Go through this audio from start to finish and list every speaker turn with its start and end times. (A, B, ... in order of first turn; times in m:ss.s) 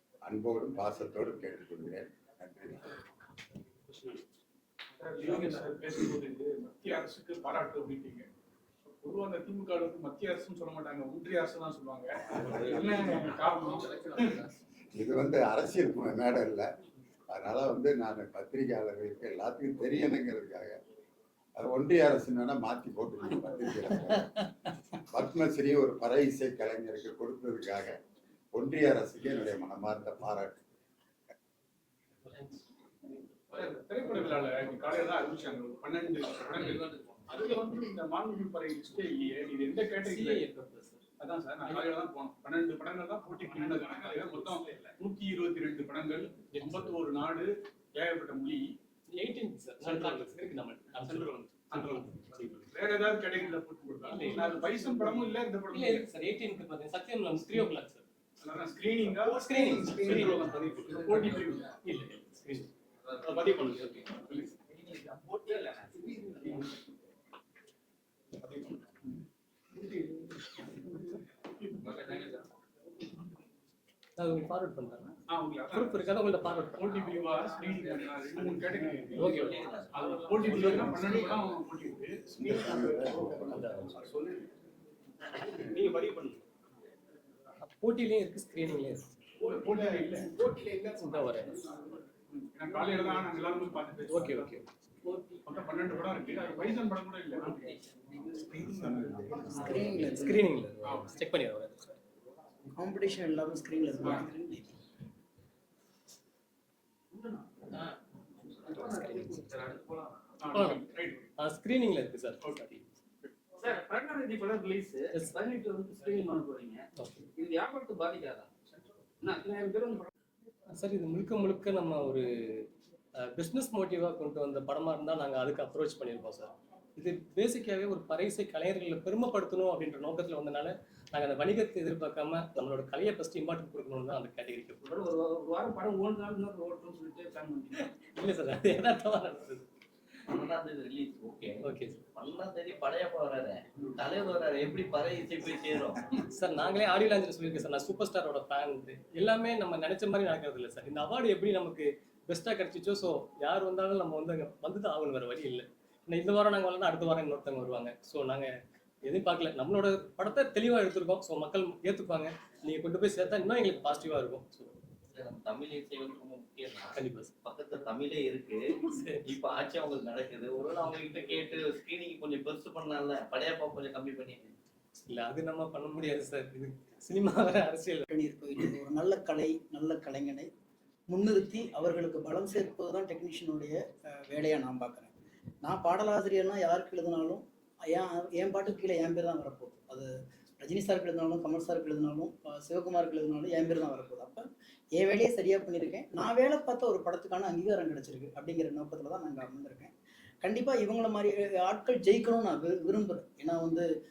0:00.2-0:02.9 A
0:05.0-0:08.3 B
0:09.0-0:14.3 B
0:12.4-0:12.9 A
0:14.9-0:16.7 A
0:17.3-0:20.8 A
0:21.6-0:24.4 A
0:25.1-0:28.0 A
0:28.5-0:30.6 A
0:33.5-0:40.4 B
0:40.0-0:41.0 C
0:41.2-0:48.7 B
0:46.5-0:46.9 C
0:49.1-0:52.6 C
0:49.8-0:50.3 B
0:51.1-0:56.1 B
0:54.1-0:54.9 C
0:55.7-0:58.0 C
0:58.4-1:01.7 B
0:59.2-1:00.5 C
1:01.8-1:02.7 C
1:03.2-1:04.6 B
1:06.4-1:06.7 B
1:08.4-1:08.8 B
1:09.8-1:10.0 B
1:11.8-1:12.3 D
1:14.2-1:15.2 C
1:15.3-1:16.0 B
1:15.7-1:17.1 C
1:16.8-1:23.4 B
1:19.2-1:19.6 C
1:19.3-1:19.9 E
1:20.4-1:20.9 C
1:22.3-1:23.9 A
1:23.5-1:24.0 C
1:23.9-1:24.5 B
1:25.6-1:26.4 B
1:27.7-1:29.0 C
1:29.4-1:30.4 B
1:31.0-1:31.6 C
1:32.3-1:34.6 B
1:34.1-1:34.6 C
1:35.4-1:37.6 B
1:38.6-1:39.5 A
1:39.6-1:40.4 F
1:39.6-1:41.9 C
1:42.8-1:44.8 F
1:47.1-1:47.8 D
1:48.6-1:50.3 D
1:48.7-1:49.4 C
1:50.4-1:51.3 B
1:50.5-1:50.8 C
1:51.4-1:52.8 C
1:52.4-1:52.7 B
1:53.6-1:56.8 D
1:57.0-1:57.2 C
1:57.4-1:58.5 D
1:59.2-2:00.1 D
2:00.7-2:02.6 C
2:03.2-2:14.8 C
2:14.8-2:17.8 D
2:18.1-2:19.6 C
2:20.3-2:21.6 E
2:21.6-2:22.0 C
2:22.2-2:26.0 E
2:26.3-2:38.5 C
2:39.0-2:44.7 C
2:45.1-2:54.5 E
2:46.9-2:47.3 C
2:48.8-2:49.2 C
2:55.1-2:58.0 C
2:58.1-3:00.5 F
3:01.1-3:05.1 F
3:05.6-3:19.9 F
3:20.4-3:23.9 F